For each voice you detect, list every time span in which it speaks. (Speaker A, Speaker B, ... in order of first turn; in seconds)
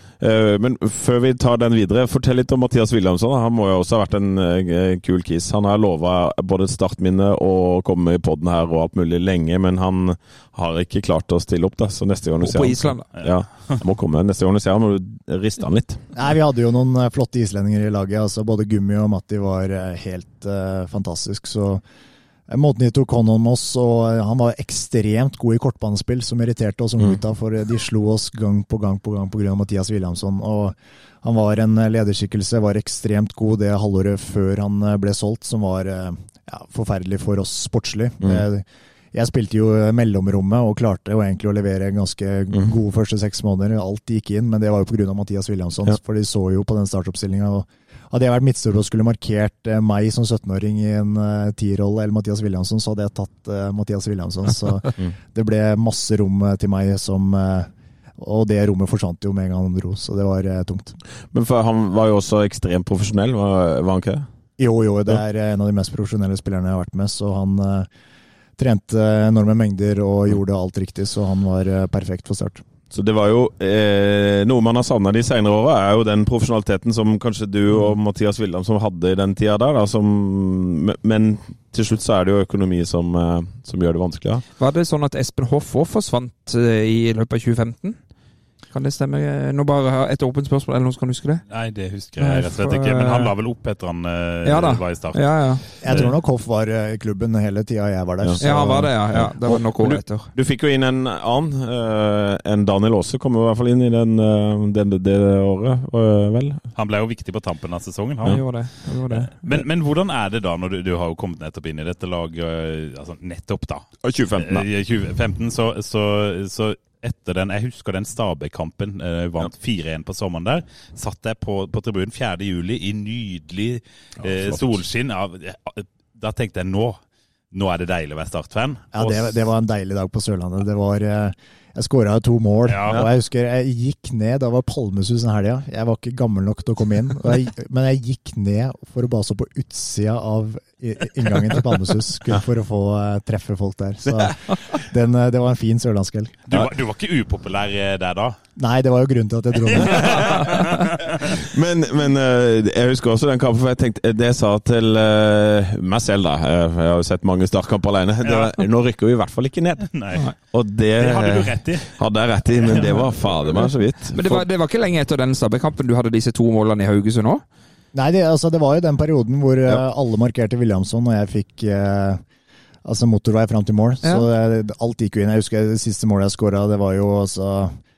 Speaker A: 0.2-16.0, 61.3-64.3, 72.9-84.4, 98.2-106.7, 114.0-114.7, 124.2-124.7, 149.9-150.5, 151.2-164.5
Speaker B: 12.4-13.1, 84.6-88.0, 88.7-91.4, 92.2-93.3, 94.5-96.0, 98.4-100.3, 108.3-109.7, 164.1-167.4
Speaker C: 13.2-13.8, 91.5-96.1, 106.7-127.0, 127.5-129.4, 132.7-133.1, 146.5-148.4, 149.6-151.3, 158.2-158.6, 159.9-160.2, 161.0-162.0, 162.6-163.0
Speaker D: 16.1-21.8, 22.5-61.0, 64.6-67.9, 68.6-72.6, 95.8-98.9, 128.9-146.4, 148.6-150.4, 167.9-172.2, 172.8-177.7